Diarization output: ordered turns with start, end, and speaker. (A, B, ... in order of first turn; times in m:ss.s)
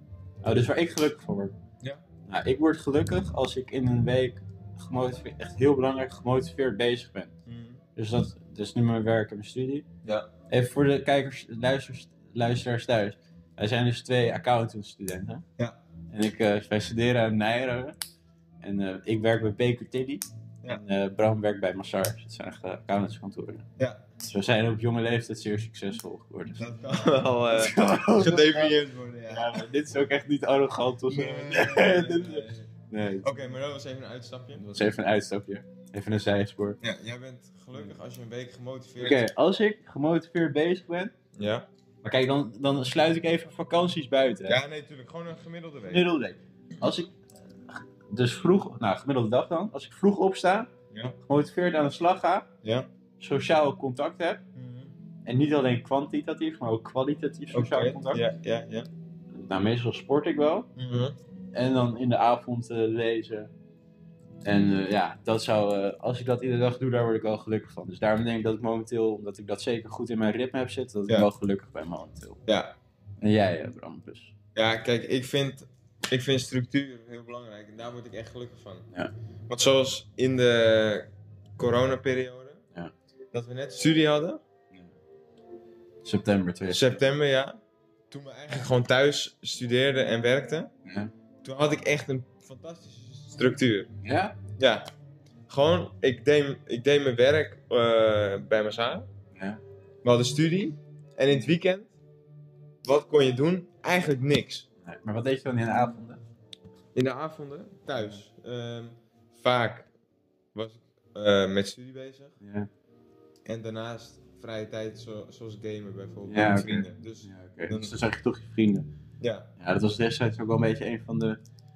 0:00.4-0:01.5 A
0:02.2-0:07.3 A
0:07.4-0:07.8 B
0:08.0-0:09.8 A
0:10.5-0:15.4 A
0:16.1-0:18.0 A
0:18.6-0:23.6 A
0:24.2-0:28.7 A
0:26.6-0:29.6 B
0:29.3-0:33.2 A
0:31.1-0:32.7 B
0:33.2-0:34.6 B
0:34.6-0:36.8 A
0:36.8-0:39.3 B
0:39.0-0:41.1 A
0:41.3-0:41.7 B
0:42.0-0:44.6 A
0:44.5-0:46.1 B
0:45.9-0:47.1 A
0:47.7-0:50.7 A
0:51.2-0:52.5 A
0:52.6-0:52.9 B
0:53.2-0:54.4 A
0:54.5-0:54.9 B
0:55.2-0:58.2 A
0:57.5-0:58.9 B
0:59.3-1:00.7 A
1:00.8-1:01.1 B
1:01.5-1:03.5 A
1:04.4-1:12.4 A
1:12.5-1:12.8 B
1:13.2-1:14.3 A
1:14.5-1:18.8 B
1:19.5-1:22.6 B
1:23.3-1:24.4 B
1:26.0-1:27.0 A
1:26.7-1:27.6 B
1:28.1-1:30.7 B
1:30.8-1:31.1 A
1:31.4-1:33.9 B
1:34.0-1:34.4 A
1:34.6-1:34.8 B
1:35.5-1:39.1 B
1:39.3-1:39.6 A
1:40.0-1:42.0 B
1:42.8-1:44.6 B
1:44.8-1:46.2 A
1:46.9-1:49.9 B
1:50.5-1:52.4 B
1:52.4-1:52.7 A
1:53.5-1:57.9 B
1:56.3-1:58.9 A
1:59.2-1:59.5 B
1:59.6-2:01.4 A